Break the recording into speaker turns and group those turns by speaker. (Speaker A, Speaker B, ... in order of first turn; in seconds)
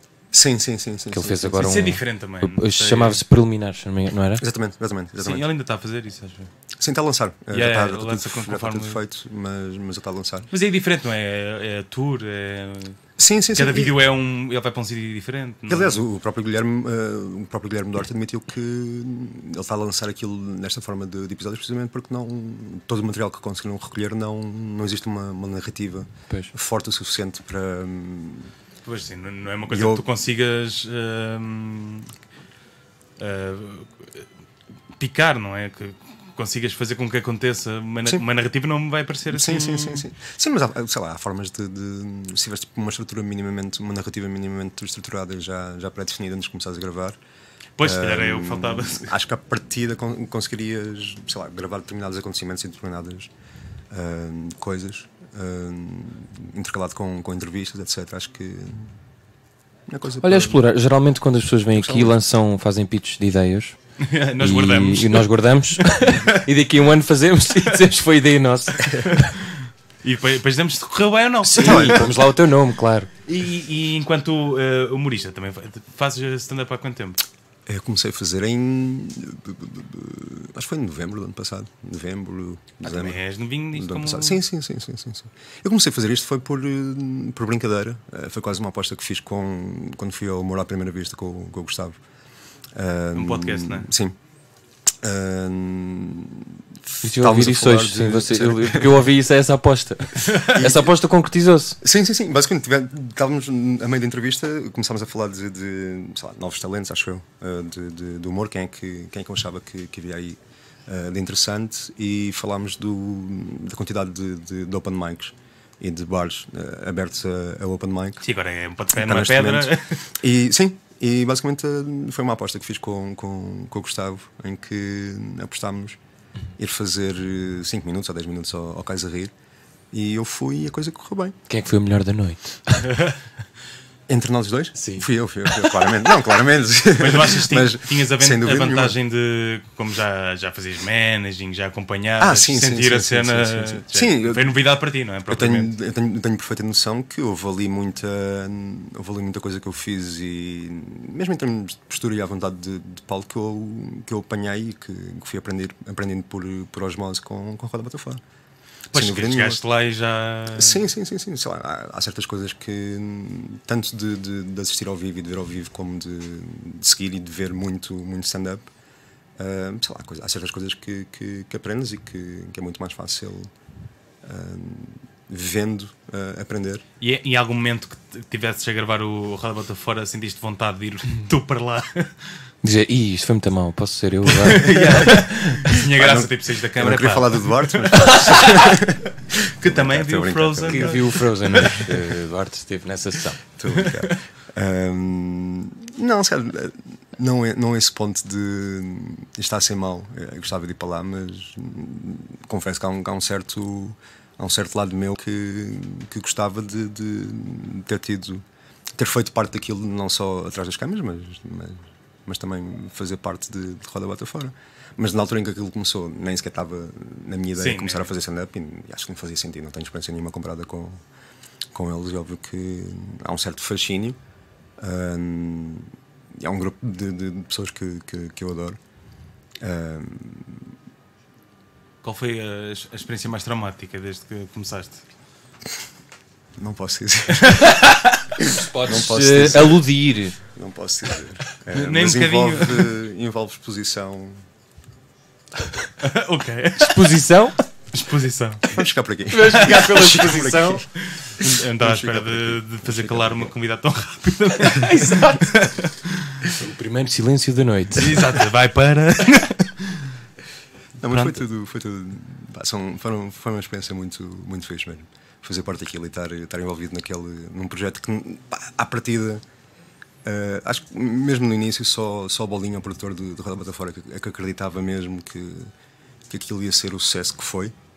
Speaker A: 0.3-1.7, 4.4-5.5, 6.8-10.5, 13.2-14.0, 15.7-28.5, 29.7-30.0, 39.3-47.2, 47.8-53.3, 53.9-58.9, 59.9-60.6, 61.7-62.1, 71.5-72.3, 77.7-83.2, 83.7-92.0, 92.7-94.2, 95.0-99.0, 100.5-100.9, 101.8-118.2, 118.9-126.0, 126.6-129.3, 129.9-131.3, 134.1-139.0, 142.2-144.6, 145.3-158.2, 158.9-159.6, 160.5-168.7, 169.4-173.5, 174.2-176.8, 184.6-191.8, 193.6-208.4, 208.9-221.0, 221.7-224.2, 224.8-228.8, 229.6-230.6, 236.6-237.8, 238.4-239.9, 240.5-244.4, 248.7-250.8, 251.4-253.5, 261.0-269.4, 270.2-275.7, 276.3-277.7
Speaker B: 1.1-4.4, 60.2-63.8, 64.4-69.3, 71.4-73.1, 97.0-101.8, 131.5-133.0, 134.8-135.7, 182.6-185.8, 190.7-193.4, 238.5-240.4, 246.8-247.6, 249.3-250.8, 254.7-255.5, 256.5-258.3
Speaker C: 1.5-3.2, 5.2-6.5, 7.5-9.0, 10.5-13.0, 13.5-16.0, 28.8-32.1, 33.2-34.2, 35.0-40.0, 47.8-49.1, 64.0-66.5, 68.8-72.0, 73.2-77.2, 82.8-84.4, 93.1-93.9, 100.2-100.6, 118.2-120.0, 132.9-133.1, 137.0-145.7, 158.9-160.8, 177.0-182.1, 184.2-188.9, 189.6-191.9, 193.7-194.1, 217.6-218.1, 232.0-235.0, 237.4-238.2, 241.7-242.9, 246.0-247.2, 247.9-248.8, 249.5-250.2, 251.0-256.5, 257.9-260.1, 261.1-261.4